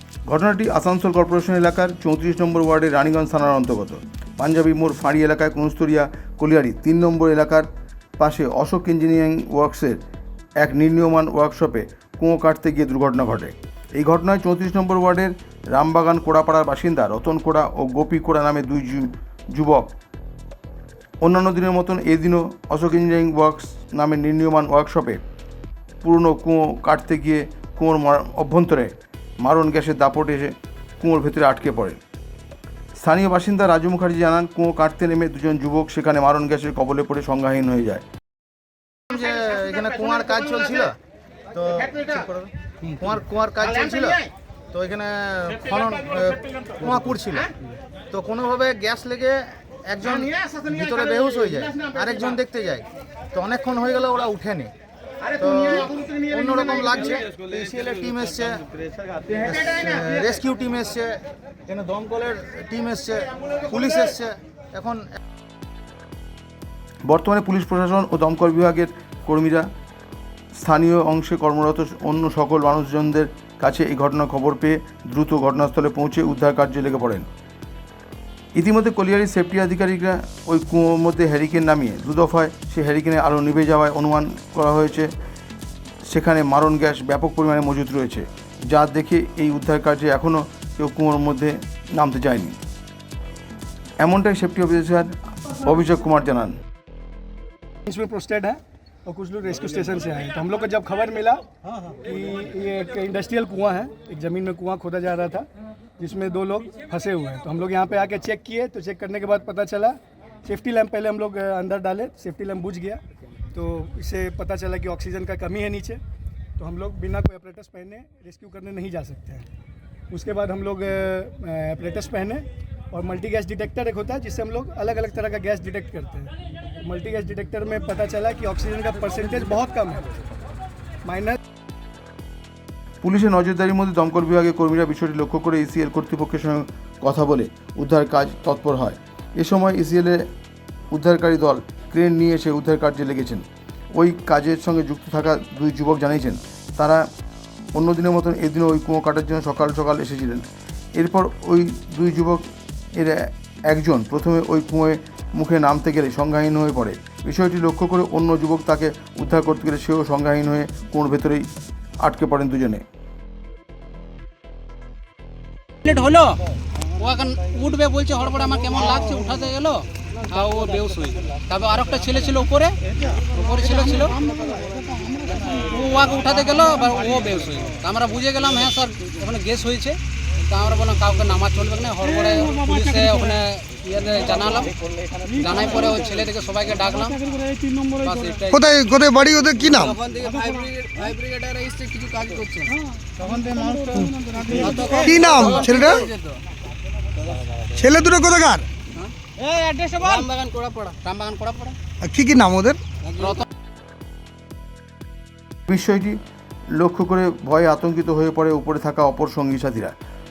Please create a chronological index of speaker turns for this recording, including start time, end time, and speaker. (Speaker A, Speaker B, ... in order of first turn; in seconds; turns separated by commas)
Speaker A: 0.3-7.7, Speaker A: 8.2-10.0, Speaker A: 10.6-19.9, Speaker A: 21.2-25.2, Speaker A: 26.0-32.0, Speaker A: 33.0-38.0, Speaker B: 39.1-41.0, Speaker B: 41.5-47.5, Speaker B: 48.1-54.7, Speaker B: 55.3-58.7, Speaker B: 59.3-65.2, Speaker A: 67.1-69.7, Speaker A: 70.6-77.3, Speaker A: 78.5-85.1, Speaker A: 86.1-92.6, Speaker A: 94.0-96.5, Speaker C: 97.8-105.5, Speaker C: 106.0-113.0, Speaker C: 113.5-116.0, Speaker C: 116.6-119.5, Speaker C: 120.1-130.0, Speaker C: 131.0-131.4, Speaker A: 133.0-140.3, Speaker A: 140.9-147.1, Speaker A: 147.7-161.5, Speaker A: 162.0-162.8, Speaker D: 165.8-166.4, Speaker D: 167.0-172.8, Speaker D: 173.3-174.1, Speaker D: 175.5-184.7, Speaker D: 185.4-187.2, Speaker D: 188.0-188.6, Speaker E: 188.5-189.9, Speaker D: 189.7-192.7, Speaker D: 194.5-196.4, Speaker E: 195.0-196.0, Speaker E: 197.8-198.7, Speaker D: 199.6-201.8, Speaker E: 202.0-202.8, Speaker D: 203.2-203.4, Speaker A: 205.7-206.2, Speaker A: 206.7-209.9